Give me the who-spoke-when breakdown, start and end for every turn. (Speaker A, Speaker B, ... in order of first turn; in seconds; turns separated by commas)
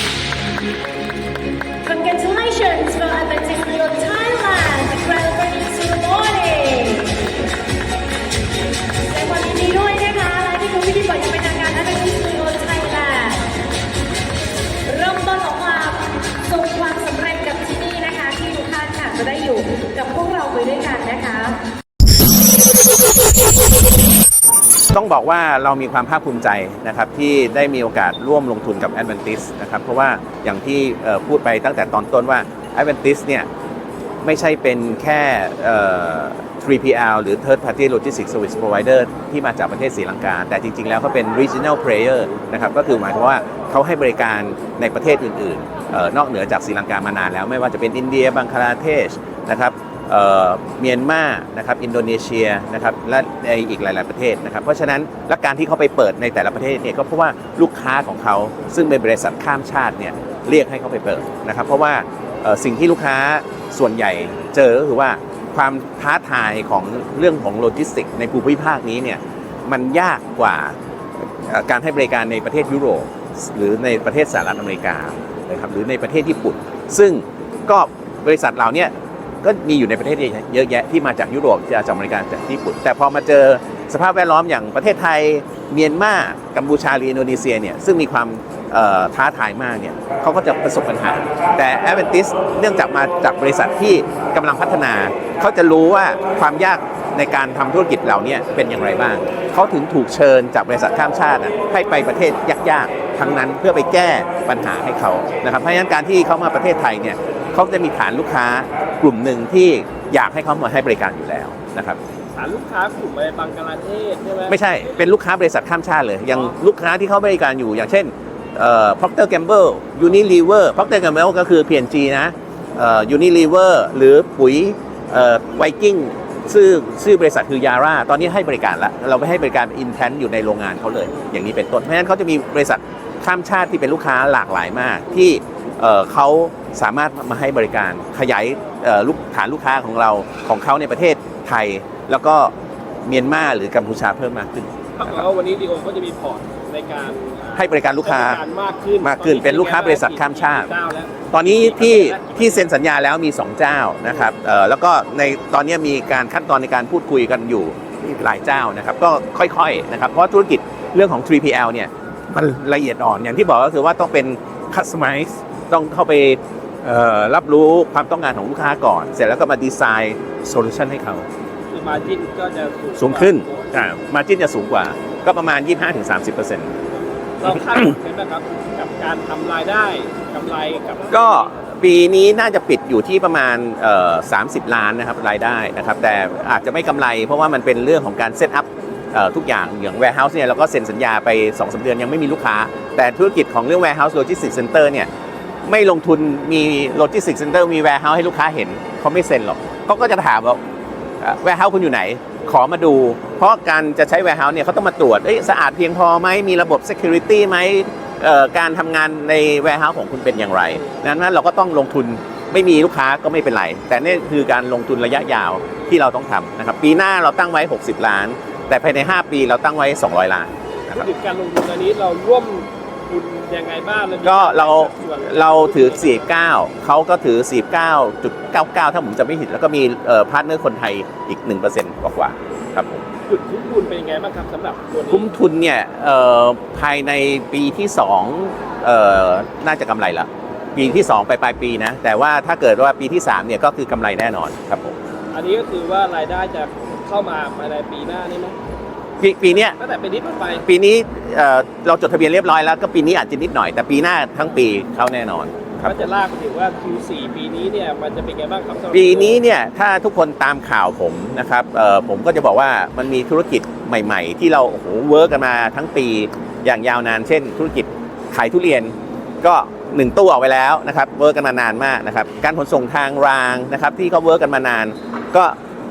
Speaker A: 1.8-7.2, Speaker A: 9.1-13.5, Speaker A: 14.8-21.6, Speaker B: 24.9-33.5, Speaker B: 34.2-70.8, Speaker B: 71.4-112.0, Speaker C: 112.3-115.1, Speaker B: 114.5-142.5, Speaker B: 143.1-145.2, Speaker C: 145.0-152.7, Speaker B: 147.6-148.4, Speaker B: 149.0-150.7, Speaker B: 151.3-171.3, Speaker C: 171.7-173.7, Speaker B: 173.0-176.7, Speaker C: 177.4-181.5, Speaker B: 181.1-195.1, Speaker B: 195.7-200.6, Speaker B: 201.2-221.1, Speaker C: 220.9-226.3, Speaker B: 224.2-233.0, Speaker C: 233.3-235.3, Speaker B: 235.1-245.0, Speaker C: 245.3-248.6, Speaker B: 249.2-249.8, Speaker C: 249.5-250.7, Speaker B: 250.6-256.0, Speaker C: 255.8-259.4, Speaker B: 258.9-275.6